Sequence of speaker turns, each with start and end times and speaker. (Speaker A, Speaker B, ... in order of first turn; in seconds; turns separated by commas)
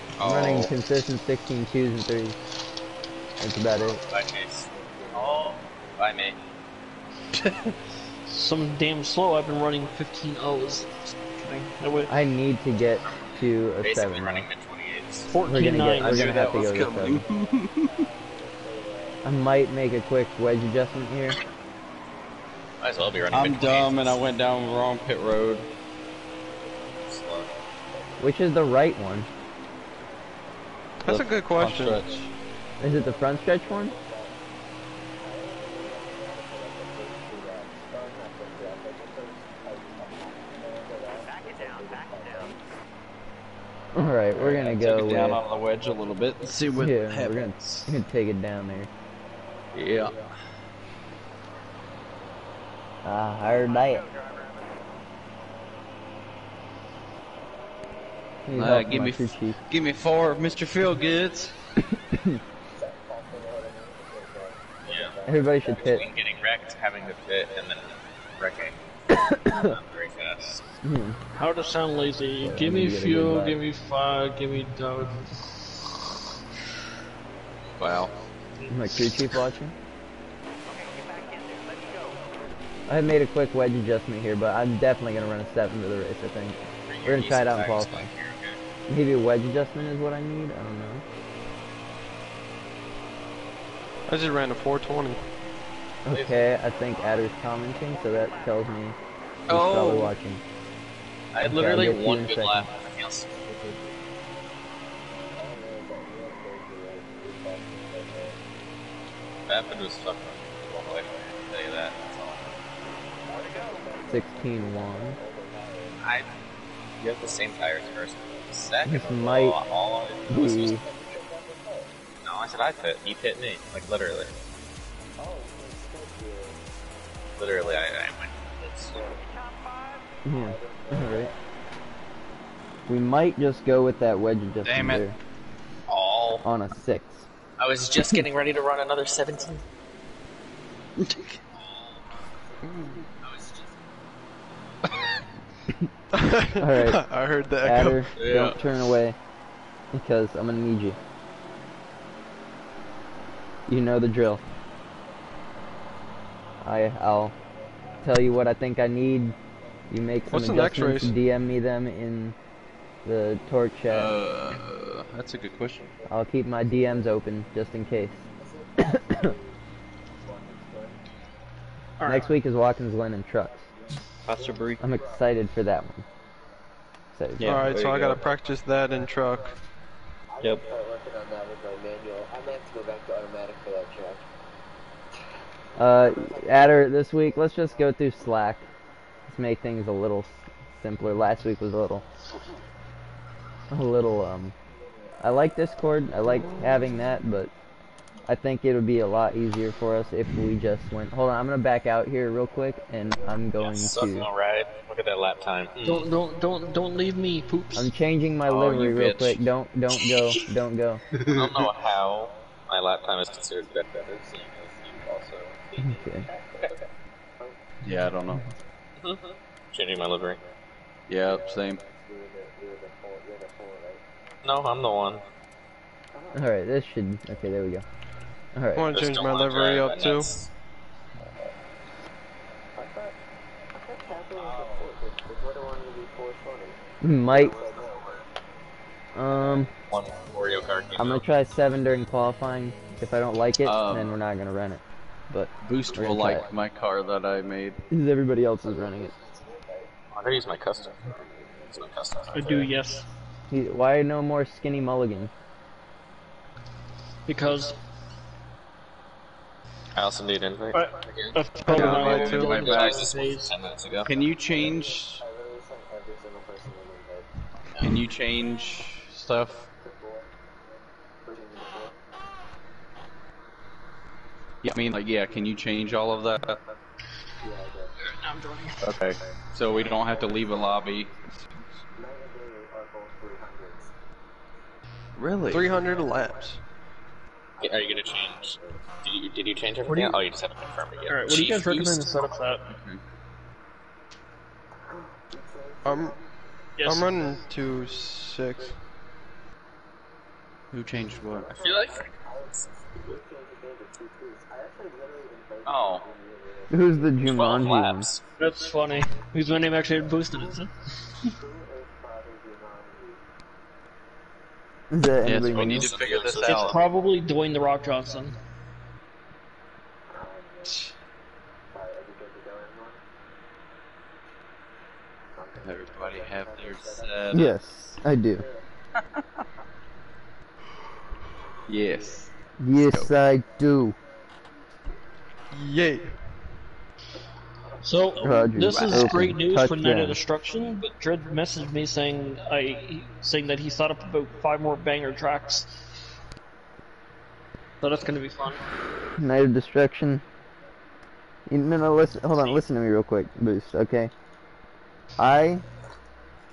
Speaker A: 0.2-0.7, Speaker B: 0.2-2.4, Speaker B: 3.4-4.0, Speaker C: 4.1-6.3, Speaker D: 4.7-5.7, Speaker E: 8.3-12.1, Speaker B: 12.1-14.5, Speaker C: 13.8-15.3, Speaker E: 15.3-16.4, Speaker B: 15.5-17.2, Speaker A: 15.7-17.9, Speaker D: 16.8-19.2, Speaker B: 19.2-21.4, Speaker C: 22.8-24.2, Speaker A: 23.3-25.7, Speaker C: 27.1-27.5, Speaker B: 28.2-29.3, Speaker F: 31.0-32.0, Speaker A: 31.1-32.3, Speaker B: 32.8-33.9, Speaker D: 32.8-34.4, Speaker D: 35.2-42.6, Speaker B: 43.9-45.4, Speaker A: 44.3-48.0, Speaker B: 46.8-48.9, Speaker A: 49.7-50.2, Speaker B: 53.0-54.0, Speaker B: 58.5-59.6, Speaker A: 58.5-61.5, Speaker B: 62.1-62.4, Speaker D: 62.7-66.0, Speaker C: 64.9-65.1, Speaker B: 65.2-66.0, Speaker C: 65.6-70.6, Speaker B: 69.3-69.8, Speaker B: 70.8-71.2, Speaker E: 71.3-75.3, Speaker B: 72.4-73.6, Speaker A: 77.8-78.1, Speaker B: 78.7-79.7, Speaker D: 81.1-81.7, Speaker B: 82.9-88.1, Speaker C: 86.9-88.6, Speaker B: 88.9-91.0, Speaker F: 94.1-95.2, Speaker B: 96.0-99.0, Speaker C: 96.1-96.4, Speaker B: 99.5-100.4, Speaker A: 99.5-100.1, Speaker C: 101.3-103.4, Speaker B: 101.4-102.6, Speaker D: 105.3-108.4, Speaker C: 109.5-112.5, Speaker D: 113.3-116.0, Speaker B: 114.1-115.2, Speaker C: 116.0-116.3, Speaker C: 117.0-120.8, Speaker B: 118.8-119.5, Speaker B: 120.3-120.8, Speaker D: 120.3-121.9, Speaker C: 122.2-124.3, Speaker D: 125.2-126.6, Speaker C: 127.4-129.0, Speaker D: 128.9-129.2, Speaker B: 130.2-131.3, Speaker D: 130.3-131.3, Speaker B: 132.9-135.2, Speaker A: 134.6-135.0, Speaker C: 135.9-136.4, Speaker B: 136.4-137.2, Speaker C: 137.6-139.6, Speaker A: 141.0-141.4, Speaker F: 142.7-143.0, Speaker C: 143.2-143.5, Speaker F: 146.1-148.1, Speaker B: 146.6-147.0, Speaker B: 147.6-149.2, Speaker A: 148.2-148.6, Speaker B: 149.9-151.0, Speaker B: 153.7-154.4, Speaker B: 156.6-157.3, Speaker B: 158.0-159.3, Speaker B: 159.9-162.3, Speaker F: 160.3-161.1, Speaker B: 163.0-164.1, Speaker A: 163.9-165.9, Speaker B: 166.1-168.2, Speaker D: 166.4-166.9, Speaker D: 168.4-169.6, Speaker B: 168.9-169.3, Speaker D: 170.2-171.0, Speaker E: 172.0-172.3, Speaker B: 172.0-173.7, Speaker A: 174.2-174.8, Speaker B: 174.8-176.0, Speaker B: 177.1-177.7, Speaker A: 177.4-178.2, Speaker F: 177.4-179.5, Speaker D: 180.4-184.2, Speaker B: 185.8-188.6, Speaker D: 186.1-186.4, Speaker B: 189.3-192.0, Speaker B: 193.7-194.5, Speaker B: 195.2-197.5, Speaker B: 198.3-204.3, Speaker C: 203.6-206.1, Speaker E: 205.8-207.9, Speaker B: 207.7-211.0, Speaker C: 208.5-209.4, Speaker C: 211.2-214.2, Speaker D: 214.1-216.8, Speaker B: 215.8-216.2, Speaker A: 217.8-218.5, Speaker C: 219.0-220.4, Speaker A: 221.1-221.8, Speaker D: 221.2-224.0, Speaker C: 224.4-225.2, Speaker D: 226.1-226.4, Speaker B: 226.3-227.8, Speaker B: 228.5-228.9, Speaker F: 228.7-230.3, Speaker C: 228.9-230.5, Speaker D: 232.8-233.2, Speaker D: 233.7-236.8, Speaker B: 237.0-237.6, Speaker D: 237.3-238.2, Speaker B: 239.1-239.7, Speaker D: 239.9-240.6, Speaker C: 239.9-241.2, Speaker B: 241.0-246.4, Speaker A: 243.6-244.1, Speaker A: 245.6-247.8, Speaker B: 247.9-249.1, Speaker D: 248.2-249.9, Speaker C: 250.1-251.0, Speaker C: 251.7-252.7, Speaker E: 252.3-253.1, Speaker B: 253.5-255.3, Speaker E: 257.3-257.7, Speaker C: 259.9-264.1, Speaker E: 260.7-263.5, Speaker F: 261.6-262.7, Speaker A: 261.7-263.1, Speaker A: 264.0-265.2, Speaker D: 264.5-267.3, Speaker C: 267.7-268.0, Speaker A: 267.8-269.6, Speaker D: 269.8-270.2, Speaker D: 271.2-271.9, Speaker A: 274.6-276.6, Speaker D: 277.4-277.9, Speaker E: 278.0-278.8, Speaker A: 278.8-281.1, Speaker D: 281.9-283.9, Speaker A: 285.2-285.7, Speaker F: 285.5-286.6, Speaker D: 287.6-288.8, Speaker C: 287.6-292.2, Speaker E: 289.9-290.2, Speaker E: 291.1-292.7, Speaker A: 292.7-293.0, Speaker D: 295.1-296.2, Speaker F: 295.8-296.1, Speaker E: 296.8-297.1, Speaker F: 296.8-298.7, Speaker D: 296.9-297.7, Speaker A: 300.7-301.5, Speaker D: 301.3-307.3, Speaker C: 301.6-302.1, Speaker A: 305.6-306.0, Speaker B: 306.7-308.1, Speaker C: 307.2-308.2, Speaker E: 308.4-310.7, Speaker D: 311.2-313.2, Speaker B: 314.9-315.9, Speaker A: 315.2-316.7, Speaker C: 315.5-316.8, Speaker E: 316.4-318.4, Speaker D: 320.1-320.9, Speaker D: 321.7-323.0, Speaker D: 325.4-327.5, Speaker A: 325.6-327.6, Speaker B: 327.3-328.4, Speaker A: 331.7-332.3, Speaker B: 332.6-333.9, Speaker F: 335.5-336.1, Speaker E: 337.8-345.7, Speaker B: 338.2-340.2, Speaker A: 338.6-339.4, Speaker E: 347.8-348.6, Speaker B: 349.2-350.2, Speaker B: 351.5-354.1, Speaker B: 355.2-355.6